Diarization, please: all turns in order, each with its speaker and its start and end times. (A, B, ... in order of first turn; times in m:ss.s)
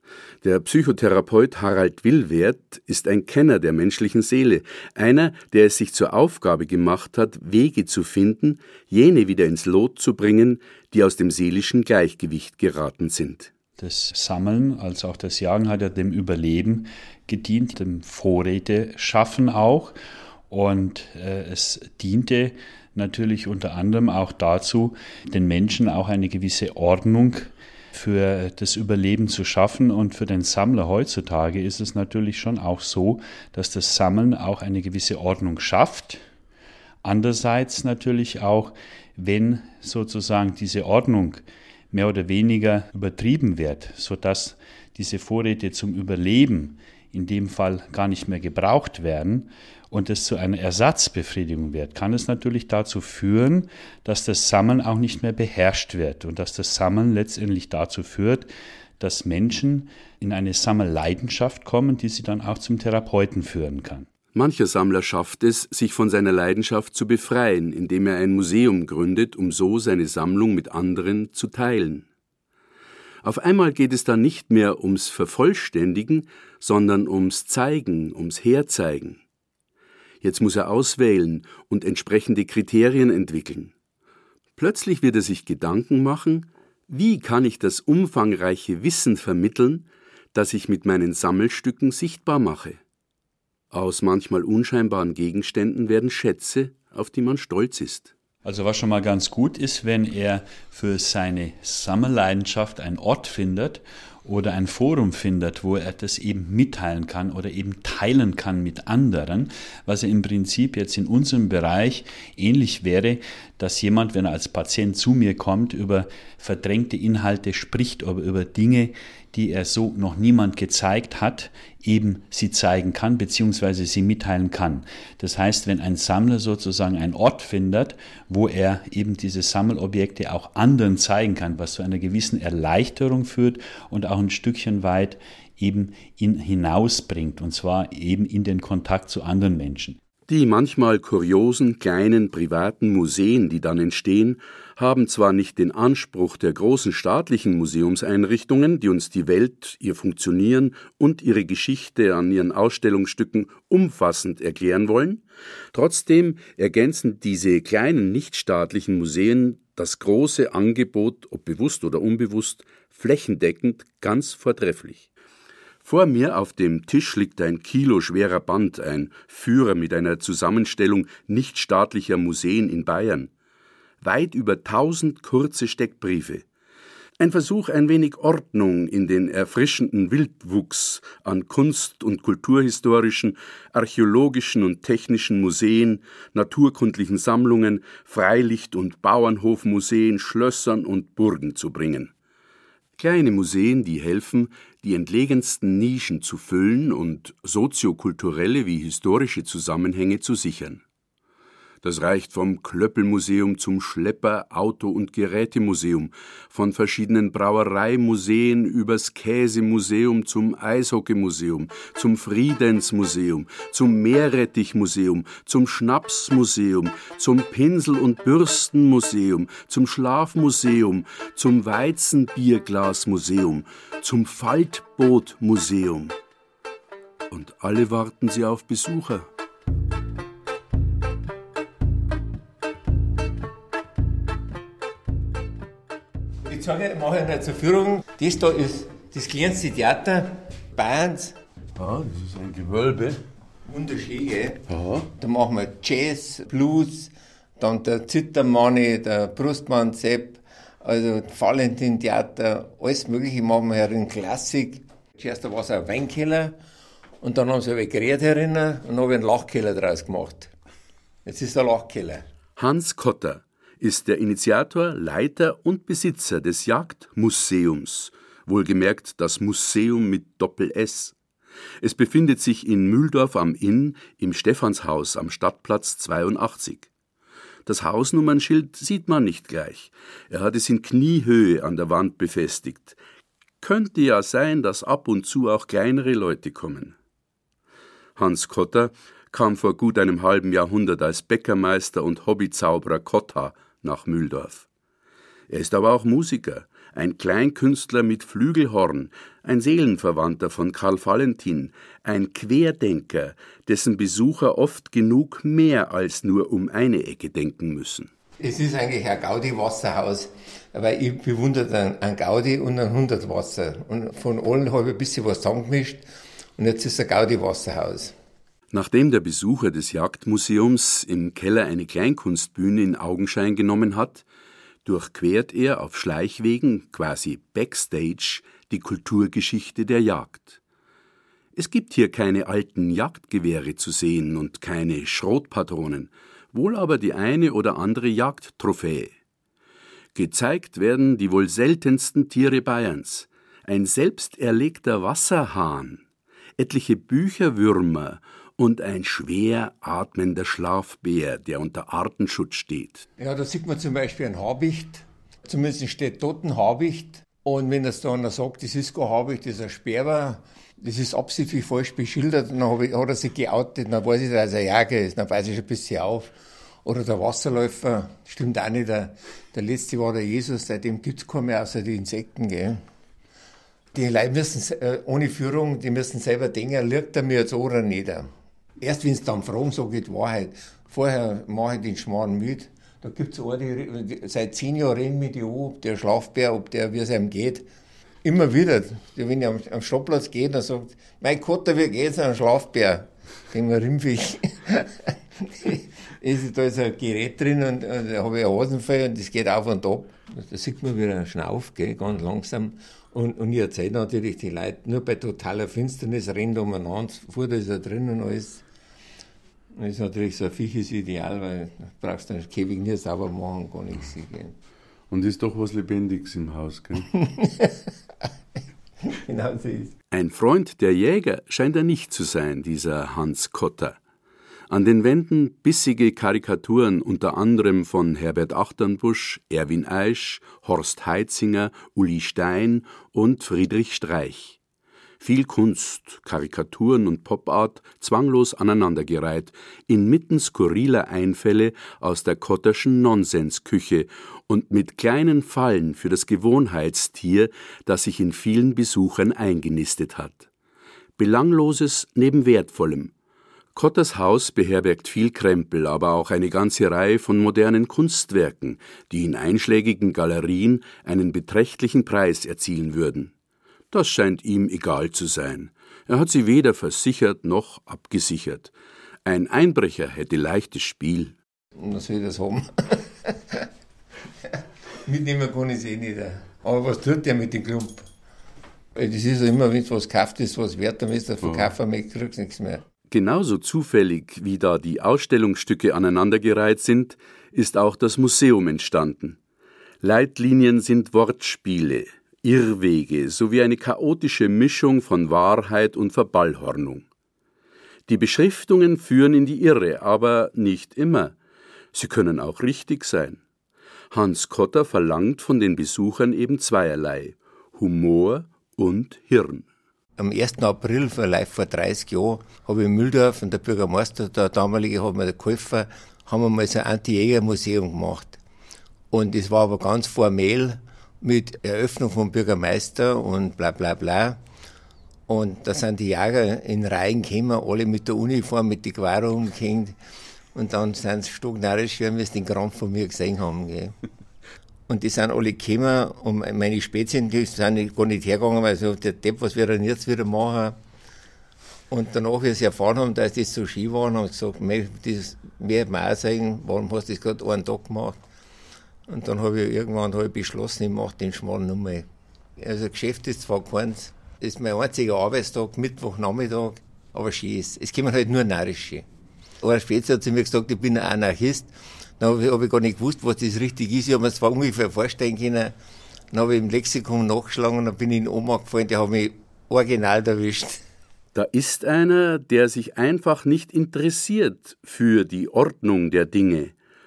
0:00.4-0:13.5 A
0:13.8-0:19.9 B
0:20.5-0:36.2 B
0:37.0-1:04.1 B
1:04.3-1:12.0 A
1:13.2-1:19.2 A
1:20.2-1:23.7 A
1:24.6-1:32.8 A
1:33.7-1:38.1 A
1:38.4-2:20.0 B
2:20.3-2:45.0 A
2:45.8-2:53.3 A
2:54.0-2:56.4 A
2:57.2-3:12.1 A
3:13.0-3:20.8 A
3:21.8-3:46.2 A
3:47.3-3:49.3 A
3:56.4-4:01.4 C
4:01.8-4:03.2 D
4:03.6-4:04.6 C
4:04.7-4:05.1 D
4:05.2-4:16.6 C
4:17.2-4:20.5 C
4:21.2-4:22.2 C
4:22.6-4:31.1 A
4:31.8-4:36.9 A
4:37.6-4:43.0 A
4:43.6-4:46.9 A
4:48.2-4:54.6 A
4:55.5-5:08.1 A
5:08.4-5:16.0 C
5:16.6-5:18.1 C
5:18.7-5:24.2 A
5:24.8-5:30.6 A
5:31.5-5:39.1 A
5:40.1-5:46.0 A
5:46.6-5:53.0 A
5:53.2-6:12.8 C
6:13.9-6:27.7 C
6:28.2-6:48.6 C
6:49.7-6:54.5 C
6:55.1-6:57.1 D
6:57.2-6:57.7 C
6:59.1-6:59.9 C
7:00.1-7:04.0 A
7:04.7-7:14.6 A
7:15.2-7:30.5 A
7:31.2-7:33.1 A
7:33.7-7:43.3 A
7:43.9-7:48.7 A
7:49.2-7:51.3 A
7:51.8-7:53.7 C
7:54.4-7:58.0 C
7:58.9-8:02.8 C
8:03.1-8:09.4 A
8:10.0-8:17.0 A
8:18.1-8:21.3 A
8:21.9-8:23.4 A
8:24.1-8:29.7 A
8:30.2-8:38.4 C
8:39.1-8:44.4 C
8:45.3-8:50.0 C
8:50.5-8:53.9 C
8:54.9-9:00.8 C
9:01.9-9:08.2 C
9:09.1-9:12.1 C
9:12.6-9:19.0 C
9:19.6-9:25.7 C
9:26.3-9:30.8 C
9:31.3-9:36.7 A